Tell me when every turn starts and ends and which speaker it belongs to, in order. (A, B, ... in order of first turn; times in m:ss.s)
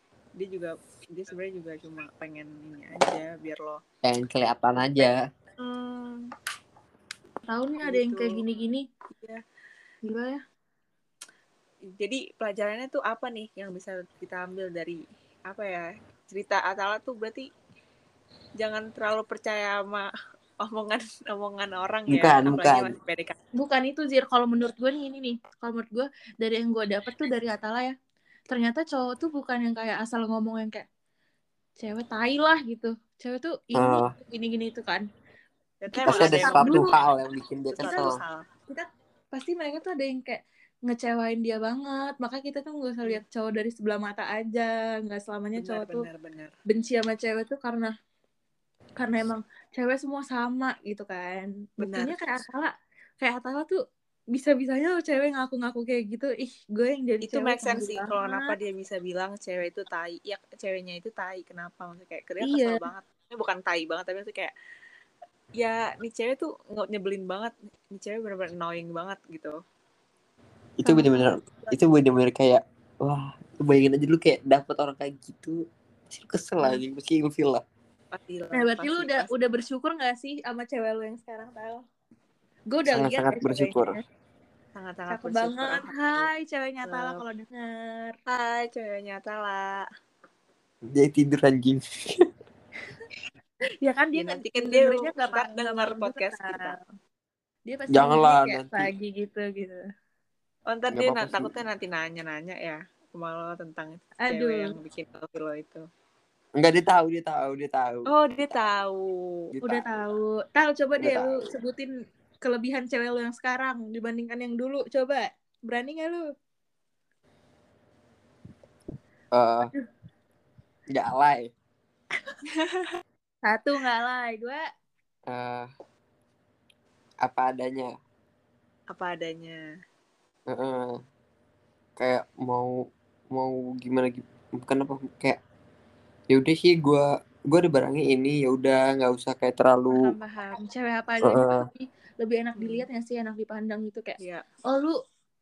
0:00.4-0:03.8 A
0:04.0-0:05.2 B
0:05.0-0:06.3 A
0:07.5-0:08.8 C
0:07.8-0:08.4 A
0:09.1-0:09.4 A
0:10.0-0:10.4 C
0:12.0-0:17.5 A
0:18.6-0:20.1 A
0:20.6-0:23.4 A
0:22.1-0:23.0 B
0:23.6-0:28.0 C
0:28.5-0:30.8 C
0:31.8-0:35.0 C
0:33.8-0:34.1 B
0:35.8-0:37.1 A
0:35.9-0:36.9 C
0:36.0-0:38.1 B
0:37.7-0:38.4 A
0:37.8-0:38.1 C
0:38.7-0:46.1 C
0:45.6-0:46.5 A
0:46.7-0:47.9 C
0:49.0-0:53.8 C
0:51.8-0:52.2 A
0:54.3-0:58.5 C
0:57.2-1:04.5 A
1:02.4-1:02.8 C
1:05.6-1:09.5 A
1:10.8-1:17.6 B
1:10.8-1:11.8 C
1:18.1-1:19.3 A
1:18.5-1:21.8 C
1:22.7-1:24.0 C
1:22.9-1:24.0 B
1:24.7-1:26.3 A
1:25.1-1:28.2 C
1:26.8-1:27.2 A
1:28.3-1:29.8 A
1:30.9-1:32.3 B
1:33.8-1:36.8 C
1:34.2-1:36.8 A
1:37.7-1:39.8 C
1:37.9-1:38.9 B
1:40.7-1:45.8 A
1:40.9-1:41.5 B
1:44.2-1:44.8 C
1:46.6-1:48.1 B
1:48.1-1:49.1 A
1:49.5-1:49.8 B
1:49.6-1:51.9 C
1:51.0-1:51.5 B
1:52.4-1:56.2 C
1:59.3-1:59.7 B
2:00.9-2:01.5 B
2:02.5-2:03.0 A
2:03.4-2:04.6 C
2:05.3-2:05.7 B
2:07.2-2:07.9 B
2:08.9-2:09.6 A
2:10.5-2:11.0 B
2:12.0-2:12.8 B
2:13.3-2:15.4 B
2:16.3-2:20.1 B
2:19.9-2:24.2 C
2:21.2-2:21.7 B
2:22.6-2:22.8 A
2:24.2-2:24.4 A
2:24.7-2:25.0 C